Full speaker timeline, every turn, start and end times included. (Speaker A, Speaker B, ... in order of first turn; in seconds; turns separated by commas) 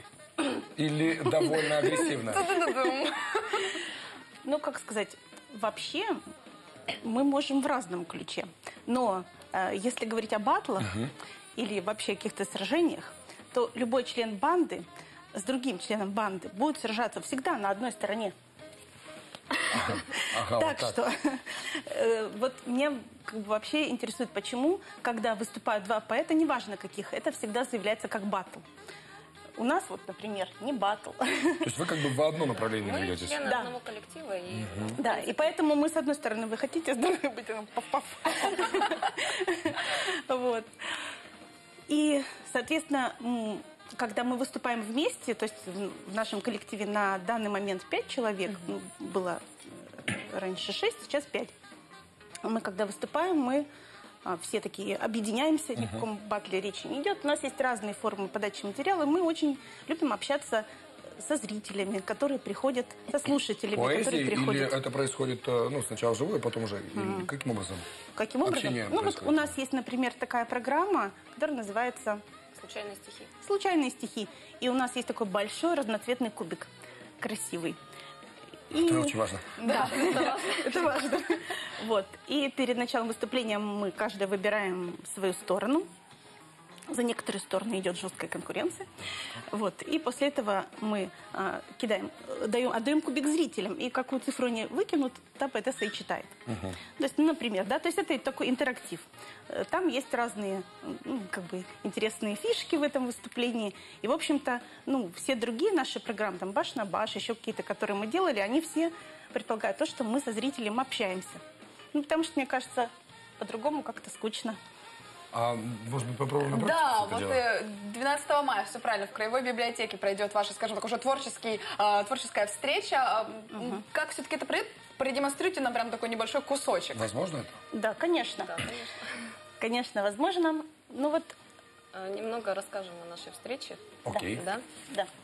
Speaker A: 0.6-2.5, Speaker B: 2.2-3.8, Speaker C: 4.4-6.2, Speaker C: 7.0-18.3, Speaker A: 19.7-21.0, Speaker C: 20.0-28.6, Speaker C: 29.6-31.8, Speaker A: 31.6-33.4, Speaker D: 32.7-35.5, Speaker C: 33.4-33.7, Speaker A: 34.5-34.9, Speaker C: 35.0-40.7, Speaker C: 41.9-51.5, Speaker C: 52.4-53.7, Speaker C: 54.2-64.8, Speaker A: 63.7-67.8, Speaker C: 66.9-67.3, Speaker C: 68.1-72.2, Speaker A: 68.4-69.5, Speaker D: 72.5-73.3, Speaker C: 73.4-76.7, Speaker C: 77.2-77.8, Speaker C: 78.7-85.8, Speaker A: 78.7-79.6, Speaker B: 79.6-80.3, Speaker C: 86.9-88.9, Speaker C: 89.5-111.4, Speaker C: 111.9-114.6, Speaker A: 115.3-117.4, Speaker B: 116.5-127.0, Speaker A: 126.9-127.6, Speaker C: 127.7-128.7, Speaker D: 128.4-129.0, Speaker C: 129.6-131.3, Speaker D: 131.9-134.6, Speaker A: 134.1-134.4, Speaker C: 134.1-135.1